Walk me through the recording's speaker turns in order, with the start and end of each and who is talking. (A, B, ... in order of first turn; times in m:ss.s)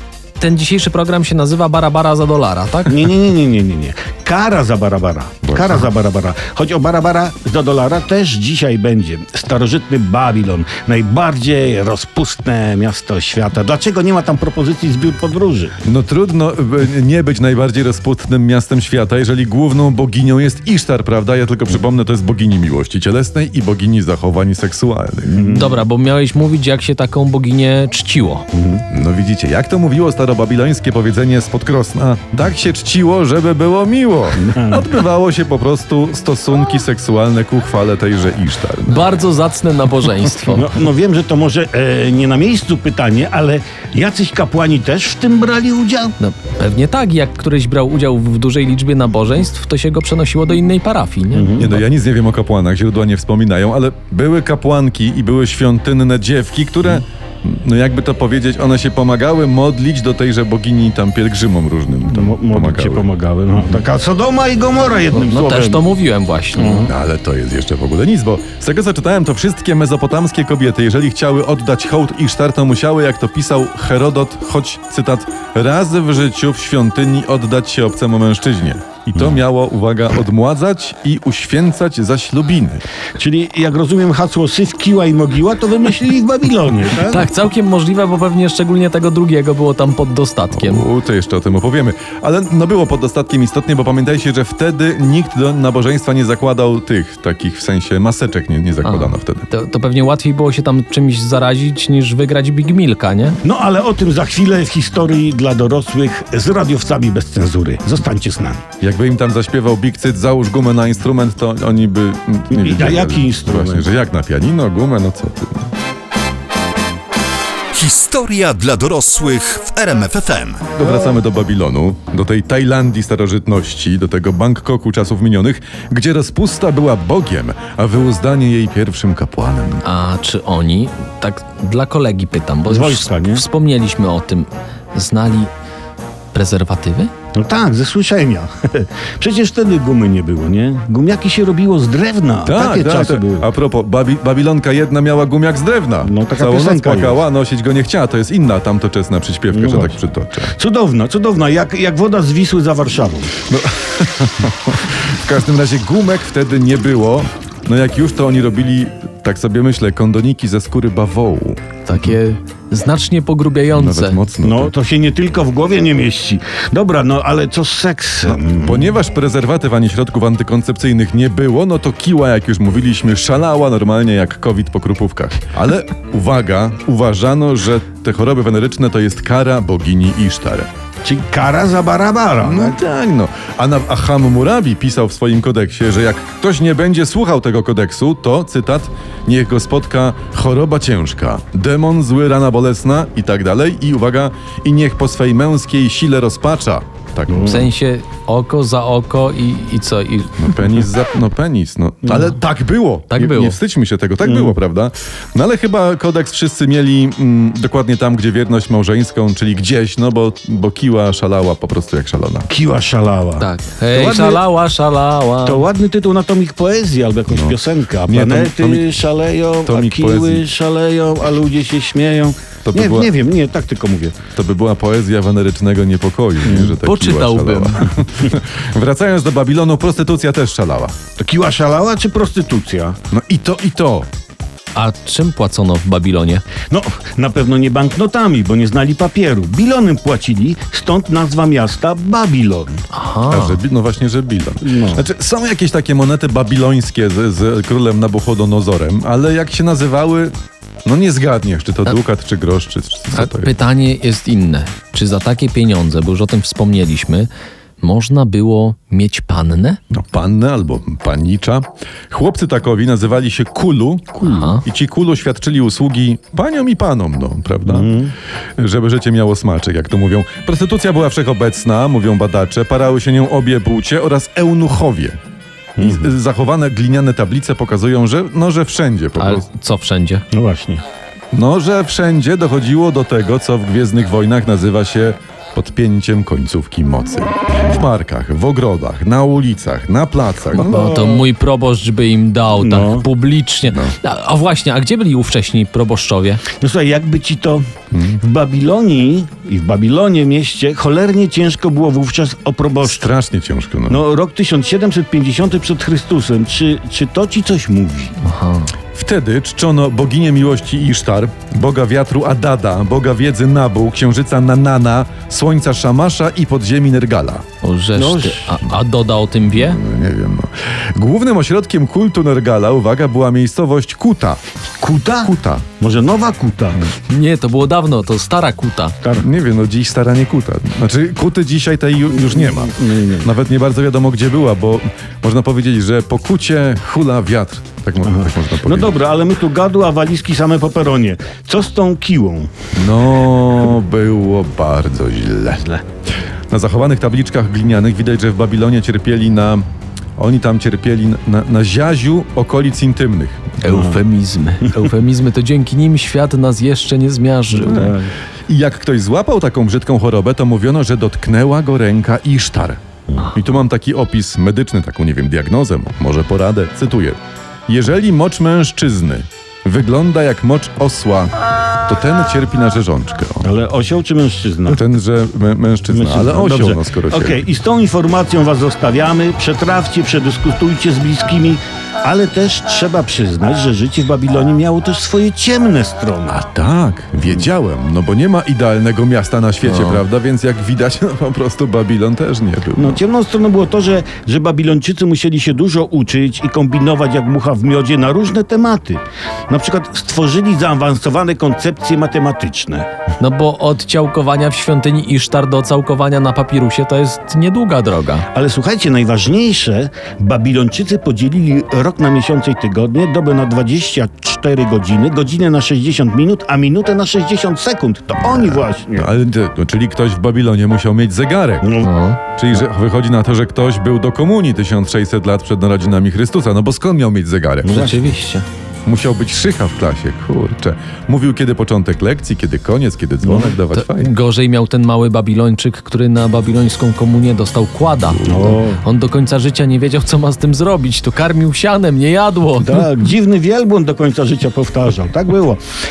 0:00.4-0:03.0 A
0:02.9-0:15.7 B
0:05.4-0:05.9 C
0:15.8-0:25.6 C
0:25.3-0:25.8 B
0:25.5-0:28.4 A
0:28.5-0:28.8 B
0:28.9-0:39.1 C
0:34.5-0:34.8 B
0:38.9-0:40.7 A
0:40.6-0:46.2 B
0:46.2-0:51.8 A
0:51.3-0:51.7 B
0:51.6-1:03.1 C
1:02.0-1:05.9 B
1:05.1-1:06.9 A
1:06.6-1:06.9 B
1:06.8-1:22.8 C
1:23.2-1:27.3 B
1:27.0-1:30.8 A
1:30.5-1:39.5 C
1:38.8-1:43.4 A
1:43.4-1:48.6 B
1:48.8-1:55.7 C
1:52.5-1:53.9 B
1:57.7-2:00.7 D
2:00.8-2:09.8 C
2:09.8-2:15.5 A
2:12.7-2:13.4 B
2:16.3-2:17.1 A
2:17.4-2:23.5 B
2:22.4-2:30.5 C
2:26.0-2:27.2 B
2:29.5-2:30.0 B
2:30.6-2:33.4 B
2:33.5-2:42.2 C
2:41.8-2:44.2 A
2:43.7-2:44.7 C
2:44.4-2:48.9 B
2:48.3-3:00.7 C
3:01.0-3:02.8 B
3:02.4-3:17.7 C
3:17.3-3:17.7 B
3:17.4-3:20.6 A
3:20.4-3:32.5 C
3:22.1-3:22.3 B
3:23.1-3:23.6 A
3:24.2-3:24.6 B
3:32.5-3:34.4 B
3:33.4-3:35.7 A
3:35.4-3:44.2 B
3:37.3-3:38.9 C
3:39.7-3:40.4 C
3:42.6-3:43.1 C
3:44.4-3:51.0 C
3:46.4-3:46.8 B
3:46.8-3:47.9 A
3:51.2-3:53.0 B
3:53.1-3:54.1 C
3:54.8-3:56.4 A
3:56.7-4:02.8 B
4:02.9-4:03.6 A
4:03.3-4:10.3 C
4:04.6-4:05.0 B
4:10.8-4:13.5 C
4:13.1-4:19.8 A
4:19.9-4:27.9 C
4:24.2-4:24.6 A
4:27.7-4:28.1 B
4:28.6-4:35.2 C
4:35.8-4:36.1 B
4:35.8-4:39.5 C
4:39.2-4:40.2 A
4:40.3-4:40.8 B
4:41.3-4:50.8 C
4:50.5-4:51.2 B
4:50.6-4:56.4 A
4:52.6-4:53.0 B
4:53.7-4:54.0 C
4:56.6-4:57.6 B
4:57.9-4:58.2 C
4:58.2-5:03.1 B
5:02.8-5:04.0 C
5:03.9-5:08.2 B
5:08.2-5:08.7 A
5:08.9-5:17.4 C
5:17.6-5:19.8 A
5:18.0-5:18.6 B
5:19.5-5:24.4 C
5:24.8-5:26.8 B
5:25.2-5:25.6 C
5:27.1-5:29.0 A
5:29.2-5:38.9 C
5:32.2-5:33.3 B
5:38.0-5:42.5 B
5:42.8-5:45.7 C
5:46.5-5:49.6 C
5:50.2-5:53.6 C
5:53.6-5:58.0 A
5:53.7-5:54.0 B
5:57.6-5:58.1 B
5:57.6-5:57.9 C
5:58.5-6:11.3 C
6:11.9-6:13.5 C
6:13.4-6:14.8 B
6:14.7-6:17.4 C
6:15.9-6:26.4 B
6:26.3-6:33.0 C
6:29.6-6:30.0 A
6:32.8-6:42.9 B
6:43.2-6:48.3 A
6:48.3-6:59.1 B
6:58.2-7:01.7 C
7:01.6-7:01.9 B
7:01.8-7:02.2 A
7:02.4-7:07.9 C
7:07.6-7:08.1 B
7:07.7-7:08.5 A
7:08.9-7:14.1 C
7:13.2-7:13.5 B
7:13.7-7:22.8 A
7:18.1-7:18.5 C
7:18.3-7:18.8 B
7:22.6-7:25.6 B